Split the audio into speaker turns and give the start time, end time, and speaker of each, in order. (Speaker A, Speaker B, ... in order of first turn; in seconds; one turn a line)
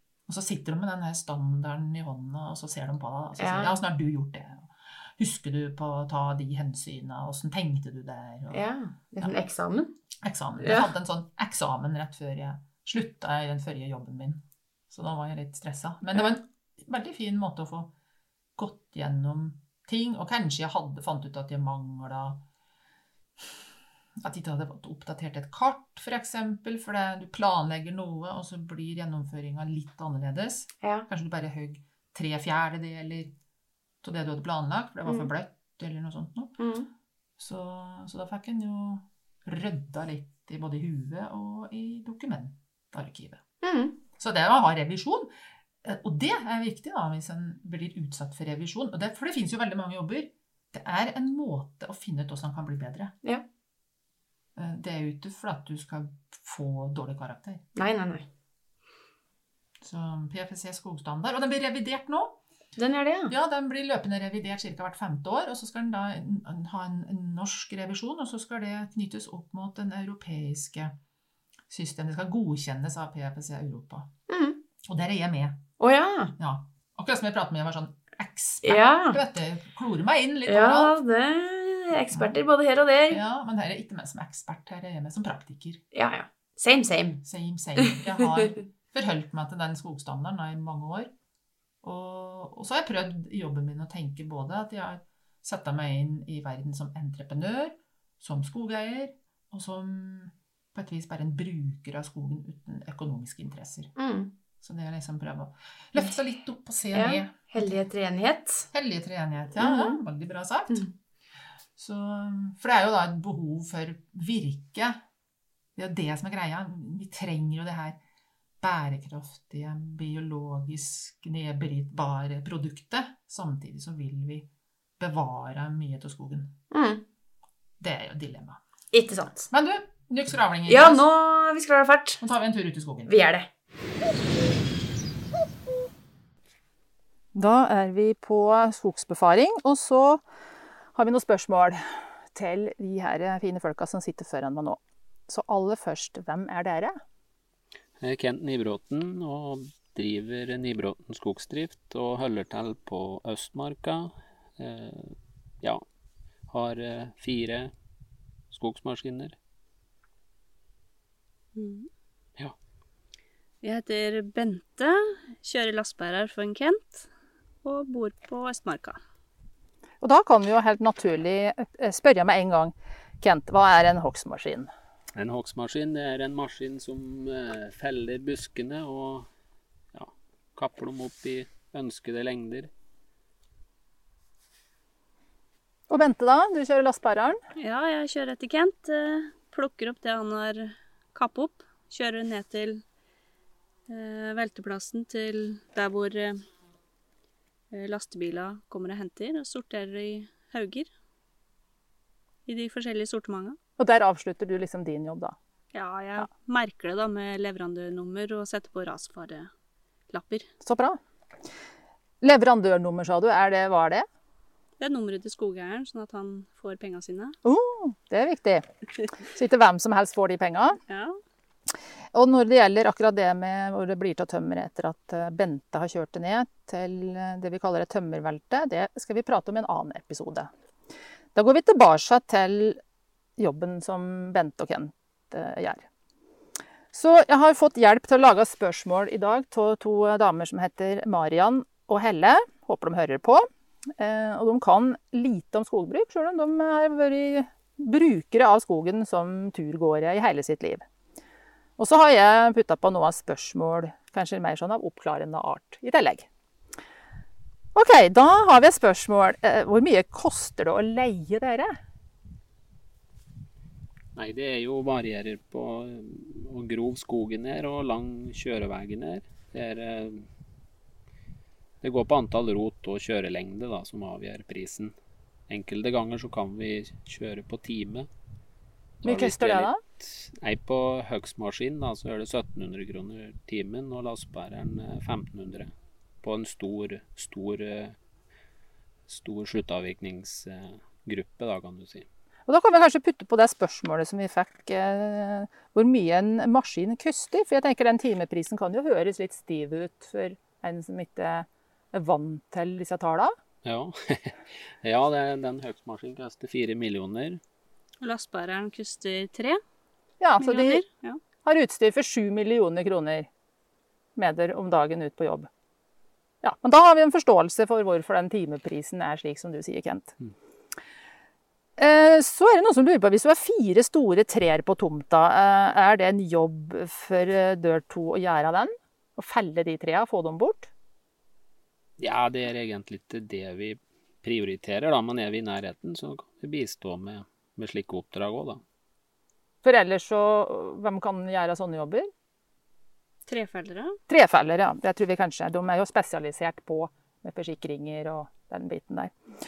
Speaker A: 0.3-8.7
Speaker B: 3.4-3.8
Speaker B: 8.5-9.9
Speaker A: 10.2-17.9
Speaker B: 10.6-10.9
Speaker A: 18.6-22.4
Speaker A: 24.2-33.3
Speaker A: 34.0-36.5
Speaker B: 36.6-36.9
Speaker A: 37.4-43.4
Speaker B: 43.6-44.0
Speaker A: 44.2-45.3
Speaker A: 45.8-53.1
Speaker A: 54.6-57.6
Speaker B: 57.8-58.3
Speaker A: 59.8-62.4
Speaker B: 62.8-63.3
Speaker A: 63.3-71.0
Speaker A: 71.7-74.1
Speaker B: 74.3-74.6
Speaker A: 74.8-75.7
Speaker B: 75.8-76.3
Speaker A: 76.4-80.9
Speaker B: 78.6-79.2
Speaker B: 80.5-83.2
Speaker A: 82.1-82.4
Speaker A: 83.1-85.8
Speaker B: 85.9-87.2
Speaker A: 87.2-91.1
Speaker A: 91.8-104.0
Speaker B: 104.0-104.3
Speaker A: 104.6-107.8
Speaker B: 106.9-108.7
Speaker A: 108.7-110.8
Speaker B: 109.6-110.0
Speaker A: 111.8-115.0
Speaker A: 115.8-118.0
Speaker A: 118.6-126.5
Speaker B: 126.7-127.0
Speaker A: 127.8-128.6
Speaker B: 128.9-129.5
Speaker A: 129.5-131.1
Speaker B: 130.7-132.2
Speaker A: 132.2-133.1
Speaker B: 133.1-133.5
Speaker C: 137.3-140.2
Speaker C: 140.9-147.0
Speaker D: 148.0-155.8
Speaker D: 156.5-157.7
Speaker D: 158.5-159.4
Speaker E: 161.6-161.9
Speaker E: 163.6-167.1
Speaker E: 167.6-169.0
Speaker C: 170.0-174.7
Speaker D: 175.2-179.3
Speaker D: 179.9-182.7
Speaker C: 185.9-187.4
Speaker E: 187.6-192.8
Speaker E: 193.9-196.5
Speaker E: 197.7-200.9
Speaker E: 202.5-203.6
Speaker C: 203.8-205.4
Speaker E: 205.7-209.5
Speaker E: 210.1-210.5
Speaker C: 210.6-211.0
Speaker C: 212.2-214.1
Speaker E: 214.8-217.3
Speaker C: 217.4-218.7
Speaker C: 219.3-220.8
Speaker E: 220.9-221.2
Speaker C: 222.1-230.5
Speaker C: 231.3-232.8
Speaker C: 233.4-235.8
Speaker C: 236.9-250.8
Speaker C: 251.8-256.3
Speaker C: 257.8-261.8
Speaker D: 264.2-270.3
Speaker D: 271.8-274.9
Speaker D: 275.5-278.1
Speaker D: 279.0-288.0
Speaker C: 279.0-279.8
Speaker D: 289.1-292.1
Speaker C: 292.5-303.3
Speaker D: 303.6-307.4
Speaker E: 308.0-309.6
Speaker C: 310.2-310.8
Speaker E: 310.4-311.2
Speaker C: 311.4-313.3
Speaker C: 314.2-315.5
Speaker C: 316.4-320.1
Speaker C: 321.8-330.7
Speaker D: 332.0-338.6
Speaker C: 339.6-342.1
Speaker E: 343.3-344.0
Speaker C: 344.1-349.1